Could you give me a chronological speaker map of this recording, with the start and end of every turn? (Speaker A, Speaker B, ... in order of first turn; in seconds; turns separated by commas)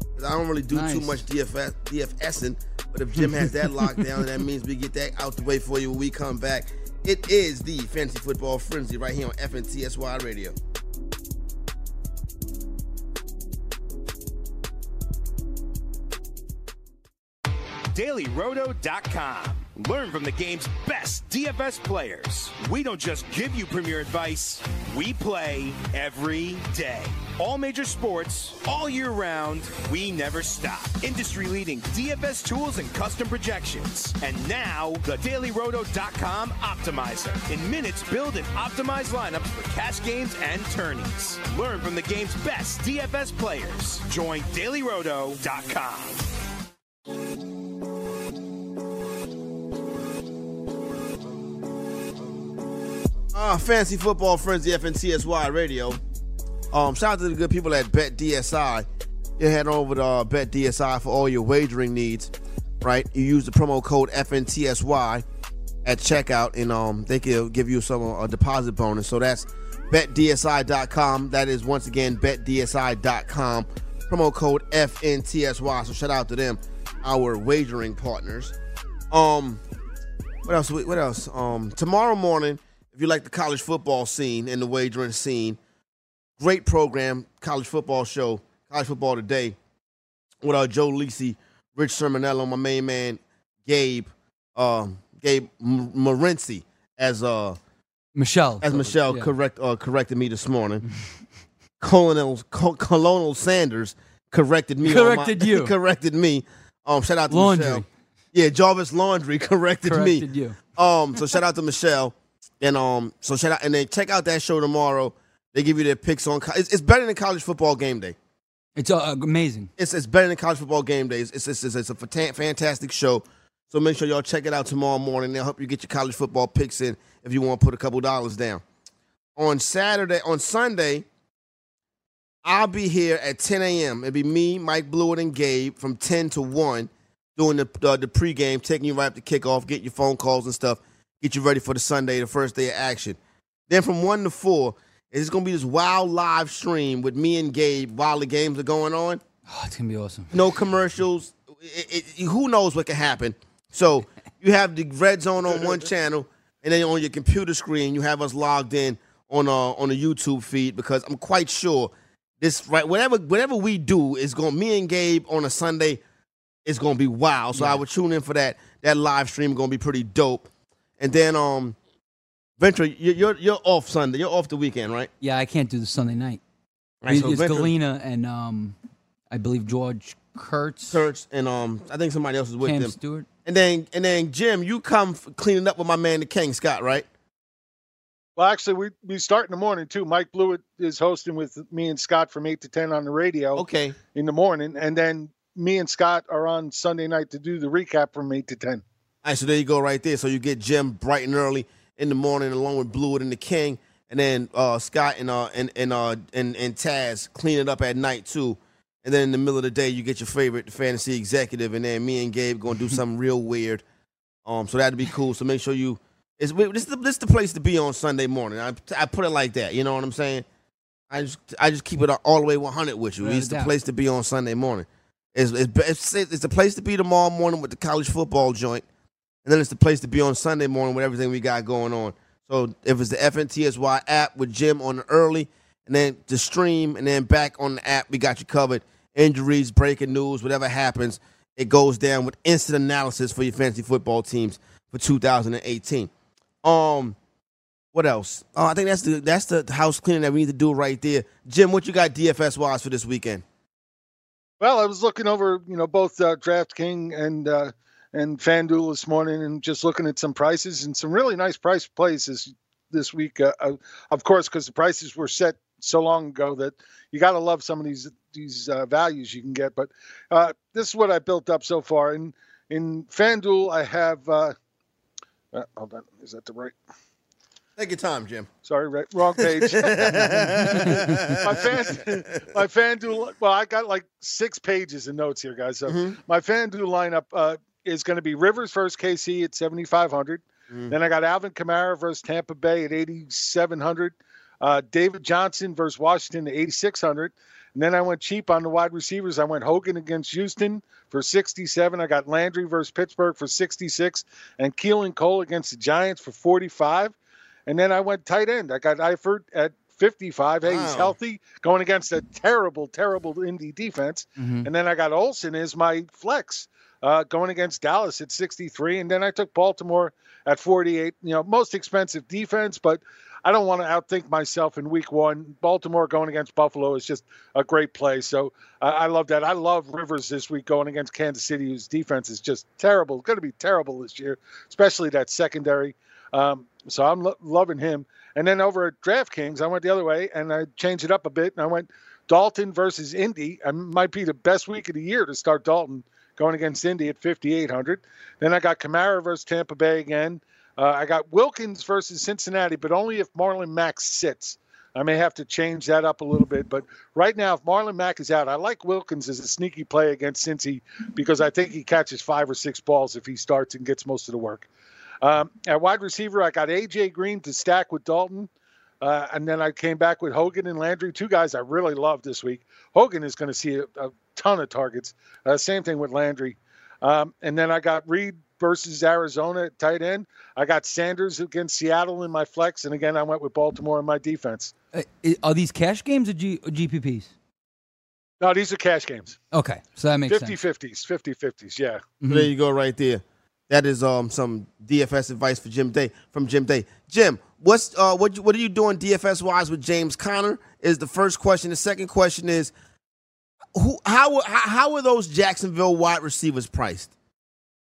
Speaker A: 0.1-10.6, Speaker B: 0.7-1.2, Speaker B: 3.2-4.2, Speaker C: 17.9-46.2, Speaker A: 53.3-56.0, Speaker A: 56.7-58.9, Speaker A: 59.4-65.2, Speaker A: 65.8-78.5, Speaker A: 79.1-79.6, Speaker A: 80.4-85.6, Speaker A: 86.4-89.5, Speaker A: 90.4-97.6, Speaker B: 98.2-99.3, Speaker A: 98.6-100.8, Speaker A: 101.8-118.2, Speaker B: 104.8-105.7, Speaker B: 107.3-107.9, Speaker B: 109.8-110.6, Speaker B: 118.8-119.7, Speaker A: 119.8-128.6, Speaker A: 129.3-131.1, Speaker A: 132.4-143.2, Speaker A: 143.7-149.2, Speaker B: 149.5-150.3, Speaker A: 150.3-166.0, Speaker A: 166.6-170.5, Speaker B: 167.5-167.8, Speaker A: 171.0-171.8, Speaker A: 172.6-175.1, Speaker B: 175.2-176.4, Speaker A: 177.0-177.7, Speaker B: 177.1-178.7, Speaker B: 179.3-181.0, Speaker A: 180.9-187.1, Speaker B: 182.6-183.3, Speaker D: 188.3-198.8, Speaker A: 193.6-194.0, Speaker A: 199.2-213.8, Speaker A: 214.4-220.4, Speaker A: 221.1-228.8, Speaker B: 223.2-223.7, Speaker A: 229.4-246.1, Speaker A: 246.6-247.2, Speaker A: 247.9-253.4, Speaker D: 254.6-274.5, Speaker D: 275.5-276.8, Speaker A: 277.8-278.5, Speaker D: 278.6-280.2, Speaker A: 279.4-282.5, Speaker B: 280.2-281.2, Speaker D: 281.4-307.1, Speaker A: 285.9-286.2, Speaker D: 307.7-364.7, Speaker A: 310.6-311.1, Speaker B: 314.4-314.7, Speaker D: 365.2-368.5, Speaker D: 369.0-384.7, Speaker B: 384.9-387.3, Speaker D: 388.4-389.4, Speaker B: 389.5-390.6, Speaker D: 390.3-392.0, Speaker B: 392.2-392.5, Speaker A: 392.3-402.7, Speaker A: 403.7-407.1